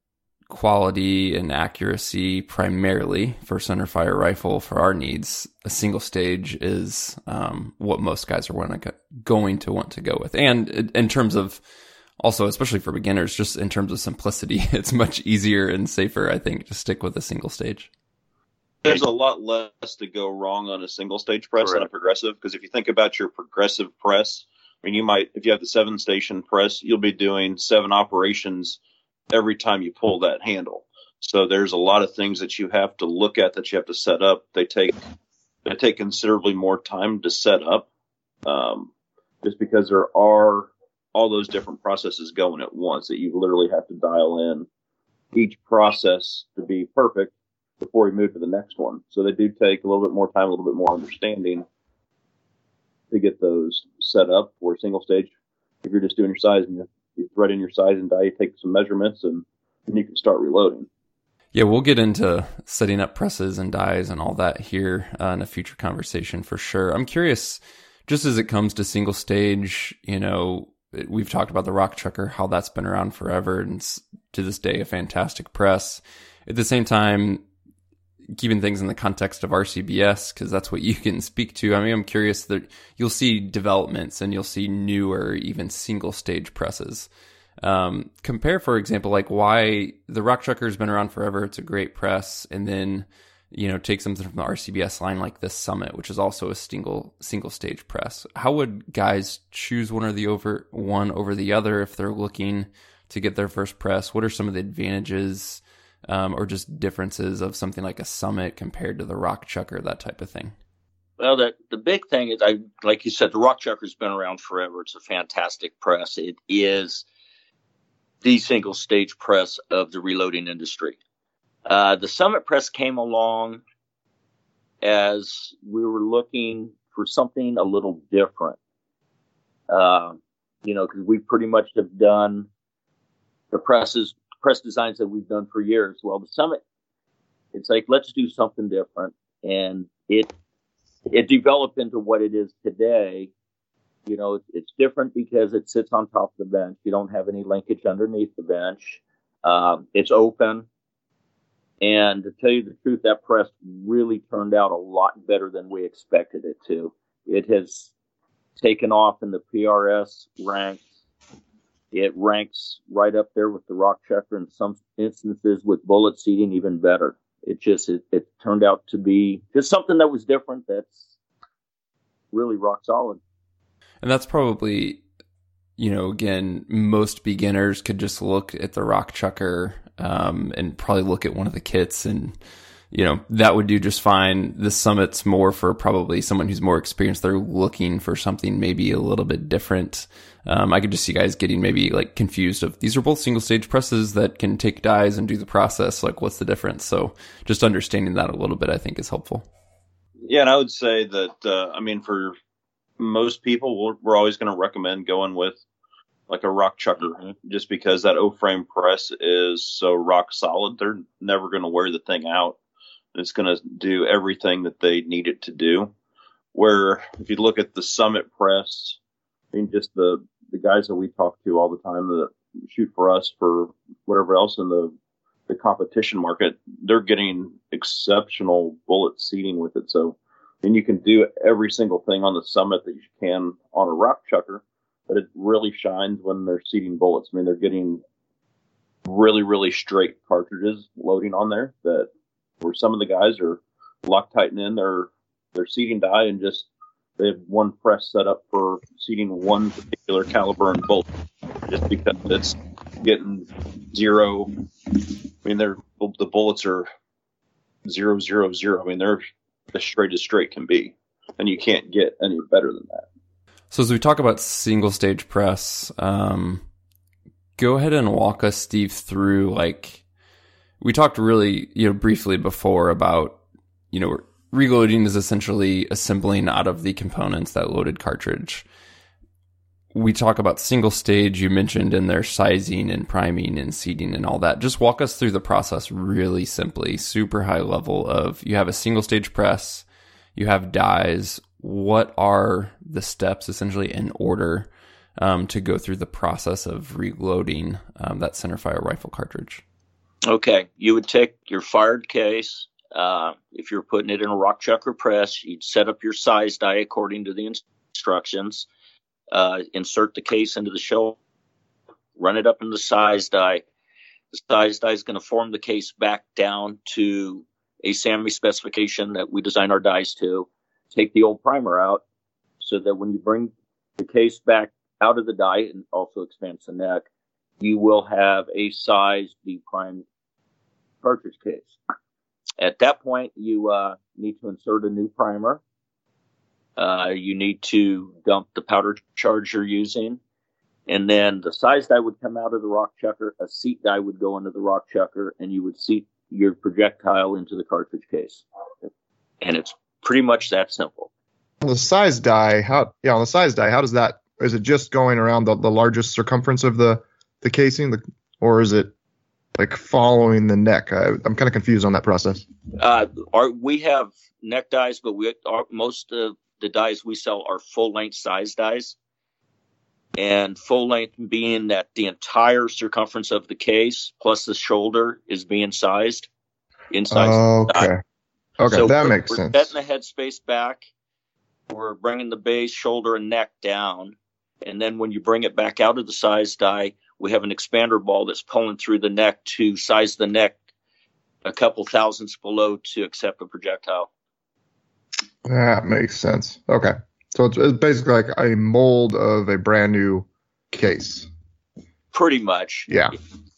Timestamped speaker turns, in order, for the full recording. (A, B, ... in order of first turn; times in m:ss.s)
0:00.5-0:11.6 A
0:12.2-0:17.9 A
0:18.8-0:28.8 B
0:29.3-0:35.0 B
0:35.6-0:37.9 B
0:38.4-0:38.9 B
0:39.4-0:44.7 B
0:45.3-0:51.7 B
0:53.1-0:55.3 B
0:55.8-1:00.9 B
1:01.5-1:17.4 A
1:18.4-1:27.1 A
1:27.6-1:50.6 A
1:51.2-1:57.0 C
1:58.2-2:01.0 C
2:01.7-2:03.6 C
2:04.8-2:08.6 C
2:09.7-2:12.5 C
2:13.5-2:16.6 C
2:17.5-2:20.3 C
2:21.1-2:23.3 C
2:24.1-2:30.7 C
2:31.8-2:37.9 C
2:38.6-2:40.8 C
2:41.9-2:51.0 C
2:52.3-2:53.2 C
2:54.0-2:55.0 A
2:55.8-3:02.4 A
3:02.9-3:19.5 A
3:20.2-3:22.3 B
3:23.0-3:25.6 B
3:26.3-3:32.6 B
3:33.1-3:35.9 B
3:36.5-3:39.0 B
3:39.5-3:44.9 B
3:45.5-3:58.0 B
3:59.0-4:02.1 B
4:02.6-4:11.1 B
4:11.7-4:14.5 B
4:15.4-4:16.9 B
4:17.8-4:23.0 B
4:23.7-4:26.6 A
4:27.6-4:30.0 A
4:30.8-4:33.4 A
4:33.9-4:38.6 A
4:39.9-4:49.8 A
4:50.4-4:59.6 A
5:00.3-5:08.7 C
5:09.3-5:11.2 C
5:12.2-5:13.6 C
5:14.3-5:22.0 C
5:22.6-5:27.0 C
5:27.6-5:30.0 C
5:31.0-5:31.8 C
5:32.6-5:35.6 C
5:36.8-5:40.2 C
5:40.9-5:48.4 C
5:49.4-5:51.1 C
5:51.6-5:58.9 D
5:59.6-6:02.4 D
6:02.8-6:09.0 C
6:10.2-6:16.3 C
6:16.9-6:17.9 C
6:17.1-6:18.0 D
6:18.6-6:19.7 D
6:18.7-6:20.9 C
6:21.7-6:30.6 C
6:31.4-6:34.1 C
6:35.4-6:41.3 D
6:42.1-6:42.9 C
6:42.9-6:43.1 D